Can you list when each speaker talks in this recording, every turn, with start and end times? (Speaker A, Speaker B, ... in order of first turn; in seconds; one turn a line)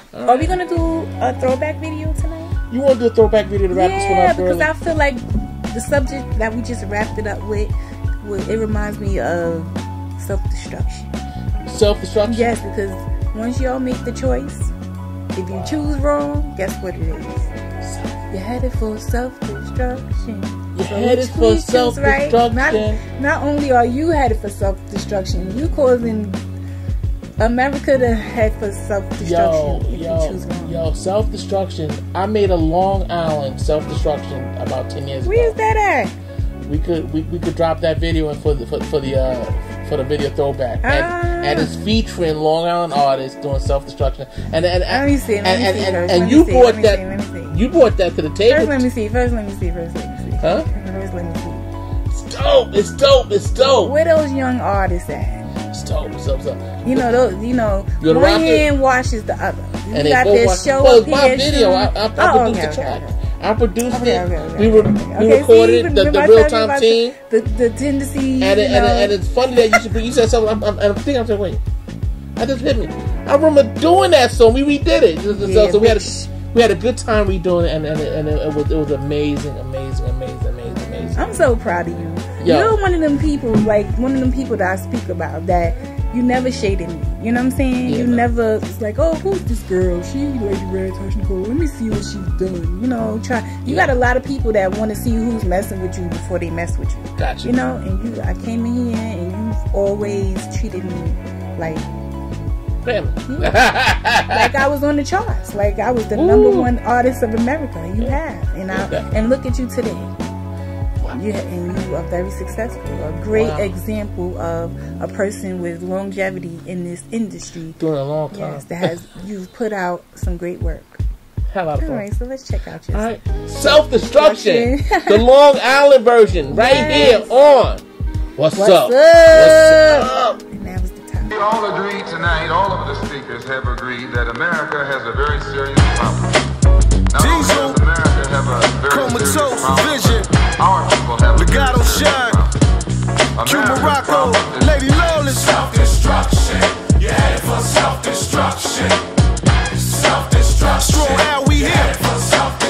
Speaker A: 0.1-0.6
Speaker B: 0.2-2.6
Speaker A: 2.7-4.7
Speaker B: 3.7-11.1
Speaker A: 11.7-12.5
Speaker B: 12.2-14.7
Speaker B: 15.3-17.5
Speaker A: 17.8-18.1
Speaker B: 18.3-26.4
Speaker A: 20.7-23.0
Speaker B: 27.4-30.8
Speaker A: 29.2-35.5
Speaker B: 35.2-36.1
Speaker A: 36.6-48.9
Speaker B: 40.8-41.7
Speaker B: 44.9-47.6
Speaker B: 48.5-51.6
Speaker A: 50.4-50.7
Speaker A: 52.1-53.9
Speaker B: 53.6-55.4
Speaker A: 55.7-57.2
Speaker B: 56.8-63.2
Speaker A: 58.0-58.7
Speaker A: 59.9-67.2
Speaker B: 63.9-69.8
Speaker A: 68.4-71.6
Speaker A: 72.3-81.3
Speaker B: 75.3-76.3
Speaker B: 81.2-101.9
Speaker A: 82.4-82.8
Speaker A: 87.8-88.3
Speaker A: 93.6-93.9
Speaker A: 97.2-97.5
Speaker A: 102.8-104.6
Speaker B: 103.3-103.7
Speaker B: 104.2-110.1
Speaker A: 106.1-106.7
Speaker A: 108.7-109.0
Speaker B: 111.1-117.8
Speaker A: 113.3-113.7
Speaker A: 117.8-118.9
Speaker B: 118.3-121.0
Speaker A: 121.5-122.0
Speaker B: 121.8-123.1
Speaker A: 122.9-127.8
Speaker B: 123.7-125.2
Speaker B: 126.5-127.4
Speaker A: 128.4-130.4
Speaker B: 128.5-131.3
Speaker C: 131.3-136.4
Speaker C: 137.1-142.5
Speaker D: 137.1-137.8
Speaker D: 138.9-140.3
Speaker D: 141.3-142.4
Speaker C: 143.4-144.8
Speaker D: 143.4-145.9
Speaker D: 150.7-152.0